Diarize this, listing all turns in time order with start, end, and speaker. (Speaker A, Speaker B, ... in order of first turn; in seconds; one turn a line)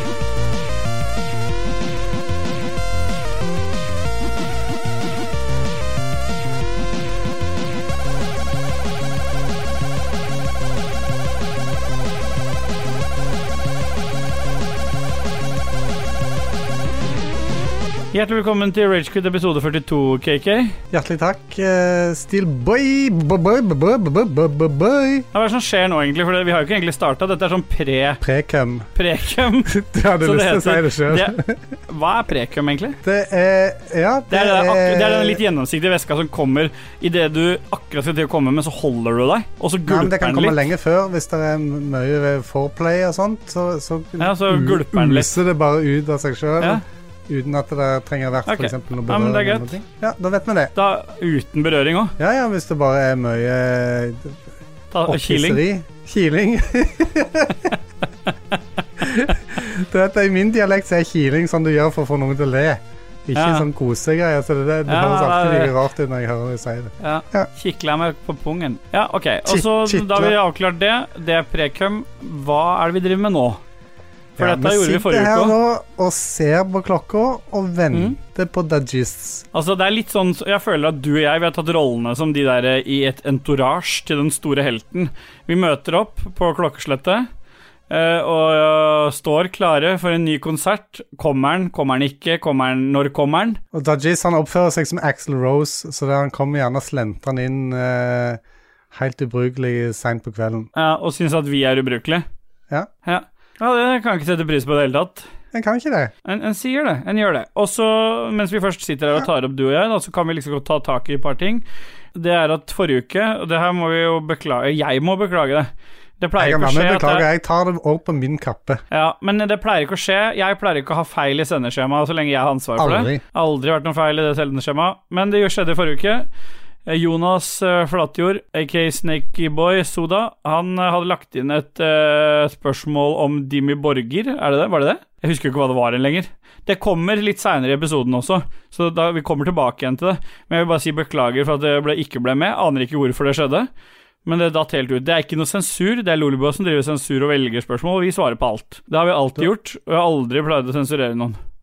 Speaker A: 18.1-20.7
Speaker B: 20.9-25.3
Speaker A: 25.3-28.2
Speaker B: 28.2-28.9
Speaker A: 28.9-31.3
Speaker B: 29.7-31.7
Speaker A: 31.9-33.0
Speaker B: 33.0-35.4
Speaker A: 34.3-40.6
Speaker B: 39.9-50.7
Speaker A: 44.2-45.3
Speaker A: 48.5-49.7
Speaker A: 50.7-52.1
Speaker B: 52.2-54.4
Speaker A: 54.9-55.6
Speaker B: 55.1-57.7
Speaker B: 59.0-67.5
Speaker A: 63.3-63.6
Speaker A: 64.9-65.7
Speaker A: 67.0-73.6
Speaker B: 69.5-70.3
Speaker A: 74.4-75.5
Speaker B: 74.4-79.4
Speaker A: 79.5-87.3
Speaker A: 87.9-93.6
Speaker B: 93.7-98.4
Speaker B: 98.9-100.7
Speaker A: 100.7-102.2
Speaker A: 103.0-105.2
Speaker B: 105.5-106.1
Speaker A: 106.2-111.6
Speaker A: 112.1-117.2
Speaker B: 116.4-118.8
Speaker A: 118.9-126.3
Speaker B: 122.8-123.2
Speaker A: 126.8-143.7
Speaker A: 144.2-151.4